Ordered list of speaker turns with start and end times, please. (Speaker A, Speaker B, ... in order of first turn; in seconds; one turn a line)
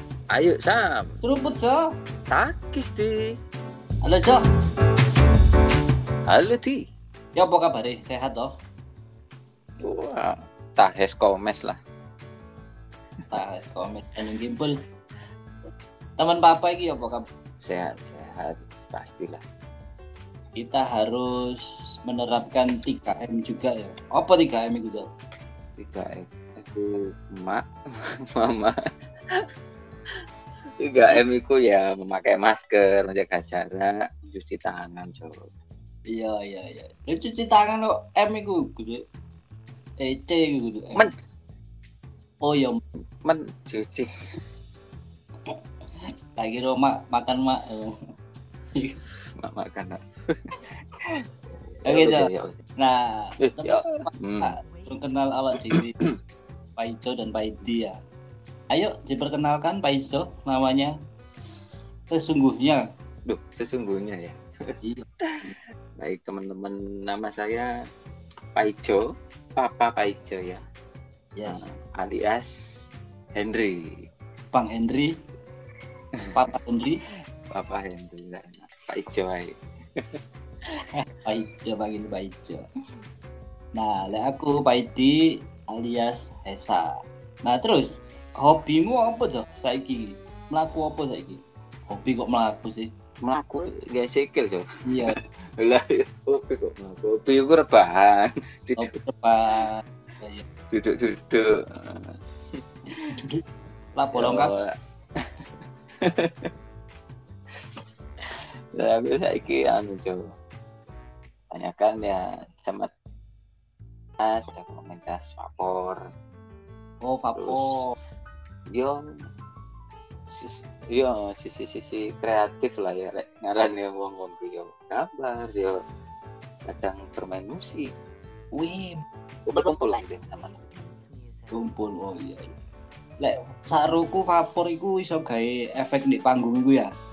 Speaker A: 0.3-1.1
Speaker B: 1.2-1.8
Speaker A: 2.3-3.3
Speaker B: 4.0-4.4
Speaker A: 6.3-6.8
Speaker B: 7.3-8.5
Speaker A: 9.8-11.8
Speaker B: 13.3-14.8
Speaker B: 16.2-17.2
Speaker A: 17.6-19.4
Speaker B: 20.6-25.0
Speaker A: 25.8-27.6
Speaker A: 28.3-28.7
Speaker A: 30.8-35.5
Speaker B: 36.1-39.0
Speaker B: 40.0-41.1
Speaker B: 42.4-42.8
Speaker A: 43.2-44.1
Speaker B: 46.4-47.9
Speaker A: 49.4-51.1
Speaker A: 51.8-52.6
Speaker B: 51.9-52.3
Speaker B: 52.8-53.9
Speaker A: 53.4-54.5
Speaker B: 54.4-55.9
Speaker A: 55.7-56.1
Speaker B: 56.8-58.0
Speaker B: 58.7-60.9
Speaker B: 62.1-62.8
Speaker A: 63.2-64.3
Speaker A: 66.0-67.7
Speaker A: 68.5-69.0
Speaker A: 69.5-70.6
Speaker B: 71.3-71.7
Speaker A: 71.5-72.5
Speaker A: 73.3-73.9
Speaker B: 74.5-75.1
Speaker B: 76.3-77.0
Speaker A: 77.5-79.5
Speaker B: 81.1-82.6
Speaker B: 83.8-85.2
Speaker B: 85.7-86.8
Speaker B: 87.4-92.9
Speaker A: 93.2-98.9
Speaker B: 94.9-95.2
Speaker B: 98.8-100.4
Speaker A: 100.7-102.1
Speaker B: 104.0-104.5
Speaker A: 104.1-104.7
Speaker A: 106.0-106.5
Speaker A: 108.8-110.2
Speaker A: 111.5-112.9
Speaker A: 114.2-116.0
Speaker B: 117.0-117.9
Speaker A: 117.3-117.8
Speaker A: 120.3-125.7
Speaker A: 126.7-127.9
Speaker B: 128.5-129.0
Speaker A: 129.5-130.6
Speaker B: 131.5-132.5
Speaker B: 133.2-136.9